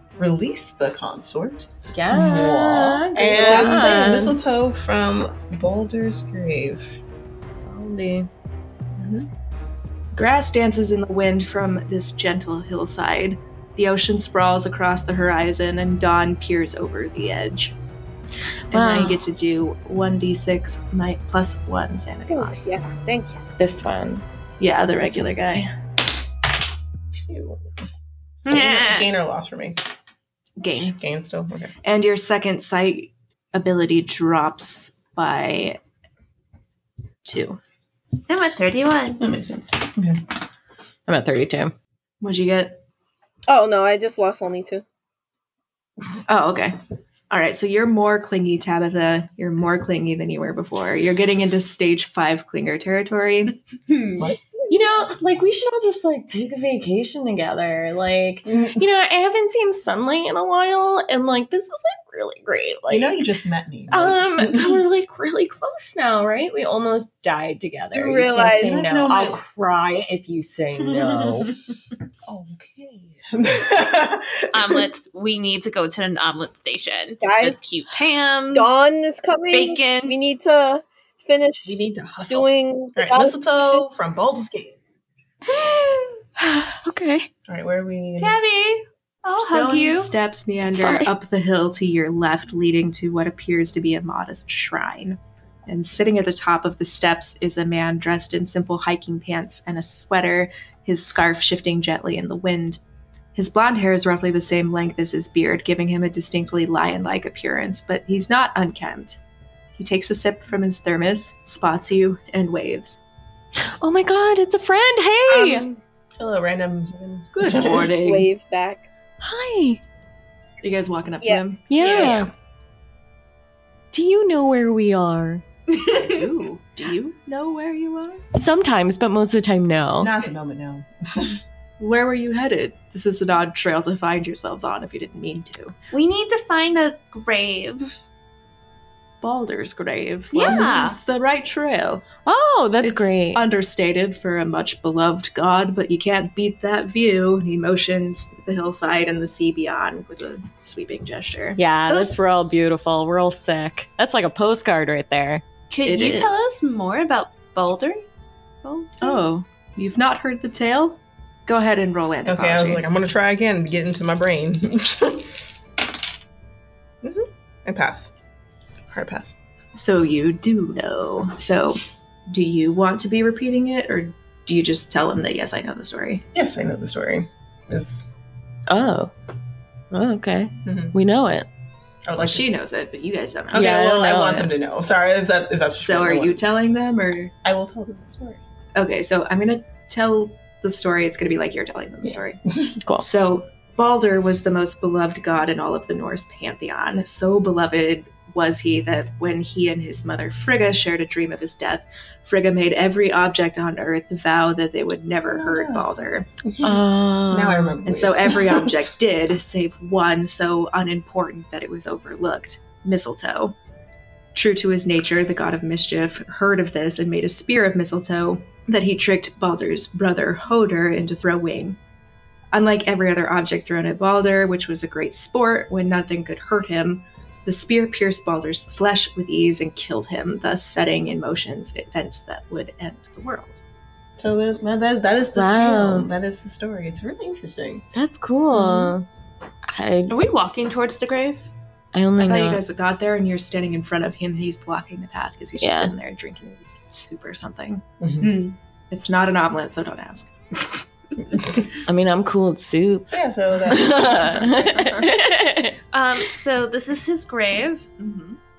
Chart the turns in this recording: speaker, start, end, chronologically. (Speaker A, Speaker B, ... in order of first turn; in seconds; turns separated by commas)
Speaker A: 0.2-7.0, Speaker B: 1.9-4.3, Speaker C: 3.2-4.1, Speaker B: 7.7-8.3, Speaker A: 9.0-9.2, Speaker D: 10.1-17.8, Speaker B: 18.7-19.3, Speaker D: 18.7-22.6, Speaker C: 22.3-23.4, Speaker B: 23.6-24.2, Speaker D: 24.6-25.7, Speaker A: 27.1-27.7, Speaker E: 28.4-29.1, Speaker A: 28.5-29.8, Speaker D: 30.6-31.0, Speaker A: 31.0-31.7, Speaker D: 31.8-35.8, Speaker D: 37.2-37.6, Speaker E: 38.3-39.2, Speaker A: 39.2-40.2, Speaker B: 41.1-41.7, Speaker D: 42.2-42.8, Speaker C: 43.5-44.8, Speaker D: 46.3-46.8, Speaker D: 47.3-53.5, Speaker B: 54.7-63.2, Speaker A: 58.5-58.8, Speaker A: 62.9-64.9, Speaker B: 63.9-71.6, Speaker C: 67.9-68.8, Speaker A: 68.6-69.4, Speaker A: 72.2-74.8, Speaker E: 74.5-78.7, Speaker C: 77.2-77.6, Speaker C: 78.5-83.9, Speaker E: 79.5-80.2, Speaker A: 81.6-84.8, Speaker B: 85.5-87.3, Speaker A: 87.5-88.4, Speaker E: 88.2-90.1, Speaker D: 89.2-102.8, Speaker B: 90.7-91.1, Speaker D: 103.3-109.2, Speaker D: 109.8-113.0, Speaker B: 113.8-115.7, Speaker A: 115.3-117.9, Speaker D: 117.3-118.3, Speaker C: 117.6-118.9, Speaker B: 119.2-119.8, Speaker D: 120.6-122.1, Speaker B: 121.7-122.3, Speaker E: 121.8-122.3, Speaker B: 123.9-125.4, Speaker E: 125.7-126.0, Speaker D: 125.8-128.2, Speaker B: 128.3-130.2, Speaker A: 130.0-131.4, Speaker D: 131.8-135.7, Speaker E: 135.9-138.0, Speaker D: 139.2-142.1, Speaker E: 140.3-141.0, Speaker B: 140.3-140.9, Speaker B: 142.2-143.4, Speaker D: 142.8-152.2, Speaker B: 151.6-155.4, Speaker E: 155.7-158.1, Speaker D: 155.8-156.4, Speaker D: 158.6-162.8, Speaker A: 162.2-165.4, Speaker A: 167.0-168.1, Speaker A: 168.9-169.4, Speaker D: 169.8-176.2, Speaker A: 176.3-178.0, Speaker B: 178.7-179.1, Speaker B: 179.9-181.5, Speaker A: 180.7-180.9, Speaker A: 182.1-182.5, Speaker D: 182.2-183.8, Speaker A: 183.5-186.4, Speaker B: 183.5-184.5, Speaker D: 185.8-187.3, Speaker A: 187.4-188.4, Speaker D: 188.8-192.4, Speaker A: 192.0-192.7, Speaker B: 192.8-193.1, Speaker D: 193.0-206.3, Speaker A: 205.3-208.8, Speaker B: 206.6-207.8, Speaker D: 207.8-213.6, Speaker D: 214.3-221.8, Speaker D: 222.5-233.6, Speaker A: 234.2-237.8, Speaker B: 235.3-236.1, Speaker B: 237.9-239.1, Speaker D: 238.5-238.9, Speaker B: 239.7-240.2, Speaker E: 240.1-241.5, Speaker B: 241.9-242.6, Speaker D: 242.2-247.8, Speaker B: 245.6-245.9, Speaker A: 248.0-248.4, Speaker E: 248.2-248.6, Speaker D: 248.9-250.3, Speaker A: 251.4-251.7, Speaker B: 251.9-253.1, Speaker A: 253.1-254.9, Speaker B: 253.7-255.8, Speaker E: 255.9-257.9, Speaker D: 258.0-258.4